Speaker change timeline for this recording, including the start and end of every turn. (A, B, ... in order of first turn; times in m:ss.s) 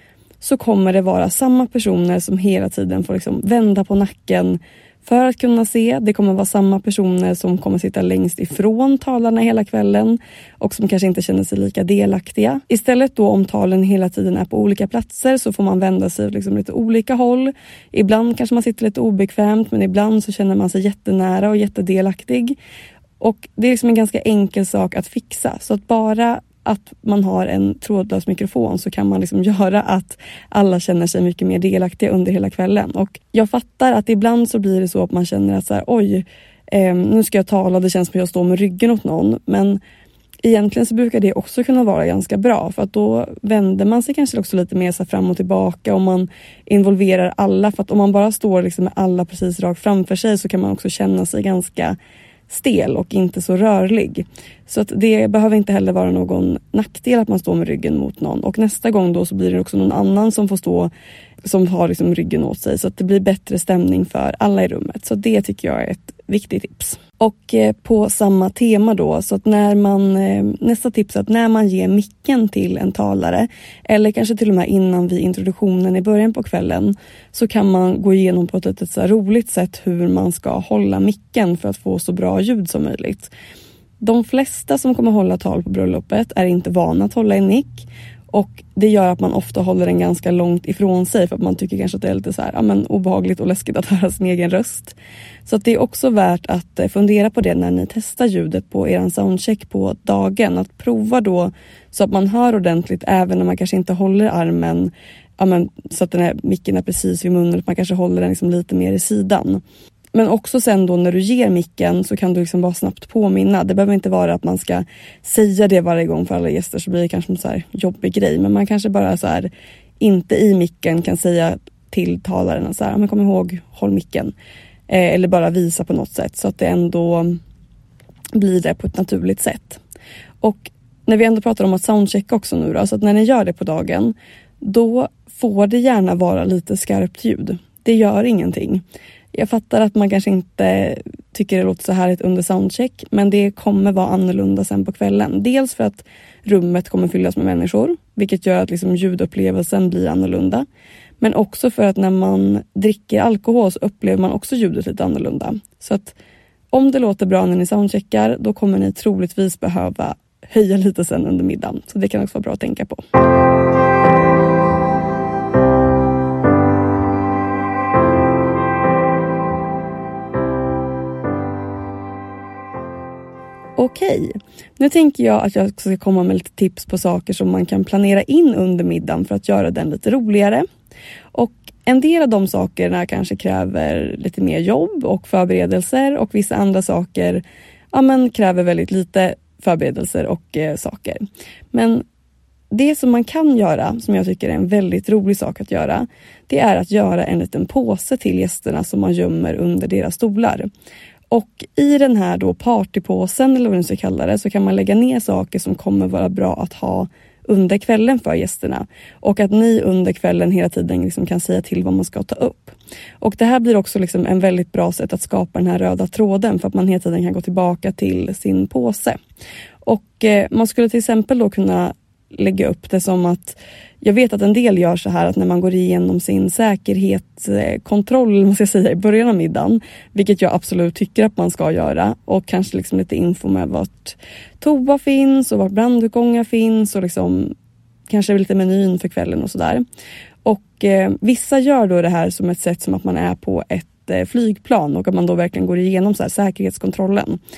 0:00.4-0:22.6 A
0:23.2-0:39.8 A
0:40.4-0:52.0 A
0:52.5-1:00.9 A
1:01.4-1:23.3 A
1:24.0-1:49.6 A
1:50.1-2:04.3 A
2:04.9-2:07.4 A
2:08.3-2:09.8 A
2:10.4-2:30.6 A
2:31.2-2:36.2 A
2:36.7-2:43.0 A
2:53.8-3:00.6 A
3:01.3-3:12.0 A
3:12.7-3:20.7 A
3:21.3-3:39.2 A
3:39.8-3:57.5 A
3:58.1-3:59.8 A
4:00.4-4:07.4 A